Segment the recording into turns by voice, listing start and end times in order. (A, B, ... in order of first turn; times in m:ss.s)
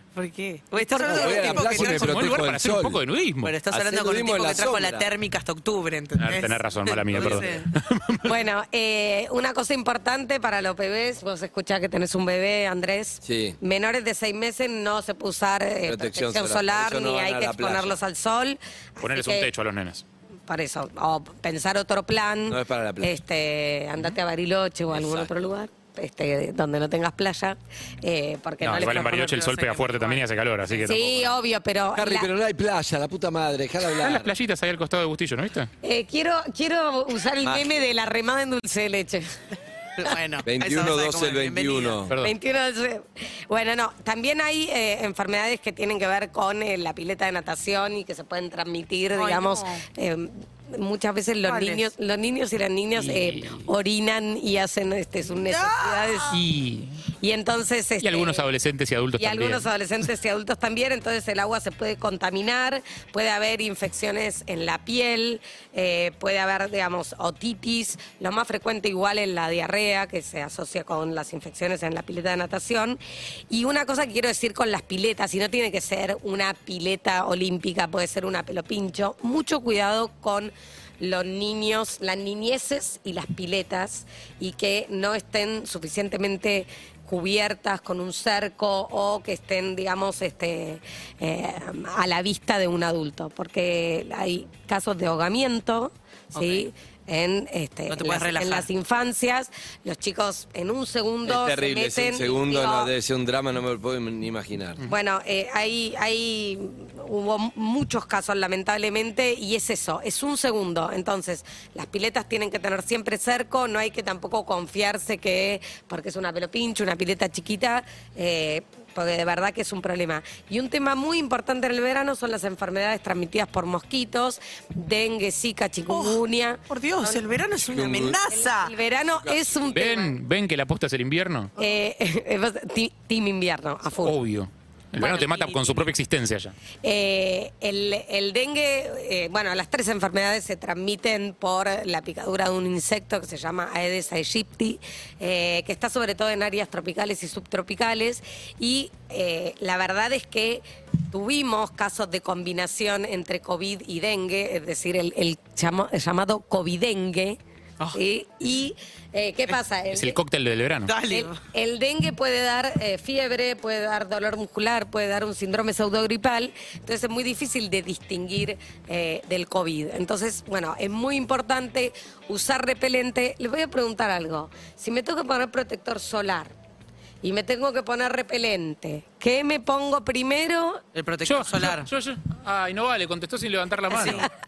0:00.2-0:02.5 A
0:00.8-0:01.8 B
0:01.1-0:03.0 C
0:01.9-0:03.5 D
0:03.4-0:07.7 A
0:03.7-0:05.1 C
0:06.2-0:08.4 D
0:07.1-0:07.5 C
0:08.2-0:19.5 B
0:13.2-0:13.6 C
0:15.8-0:18.0 C
0:19.0-0:20.0 D
0:20.5-0:29.3 B
0:22.5-0:23.1 C
0:24.9-0:25.4 C
0:28.6-0:31.3 D
0:28.8-0:31.0 A
0:30.8-0:32.3 B
0:32.0-0:34.4 C
0:34.0-0:35.7 D
0:35.8-0:39.3 B
0:37.4-0:37.8 C
0:40.0-0:42.0 A
0:40.4-0:42.1 C
0:42.2-0:56.4 B
0:49.1-0:49.8 A
0:51.4-0:51.8 A
0:53.0-0:53.7 D
0:55.3-0:56.4 A
0:56.3-0:57.0 D
0:57.2-0:58.5 B
0:58.0-0:59.7 D
0:59.2-1:13.0 B
1:13.5-1:42.9 B
1:36.4-1:36.7 A
1:37.9-1:38.7 A
1:41.2-1:44.8 C
1:44.8-2:07.3 B
2:05.9-2:08.7 A
2:07.6-2:08.2 C
2:08.3-2:10.1 B
2:08.9-2:10.0 C
2:09.8-2:11.5 D
2:11.6-2:14.2 B
2:14.0-2:16.5 D
2:15.0-2:15.9 A
2:16.8-2:37.4 B
2:37.9-2:40.2 B
2:39.9-2:40.9 D
2:40.9-2:41.4 A
2:41.1-2:56.5 B
2:57.2-3:00.8 B
3:01.0-3:01.9 A
3:01.2-3:04.3 D
3:03.9-3:04.3 B
3:03.9-3:04.3 A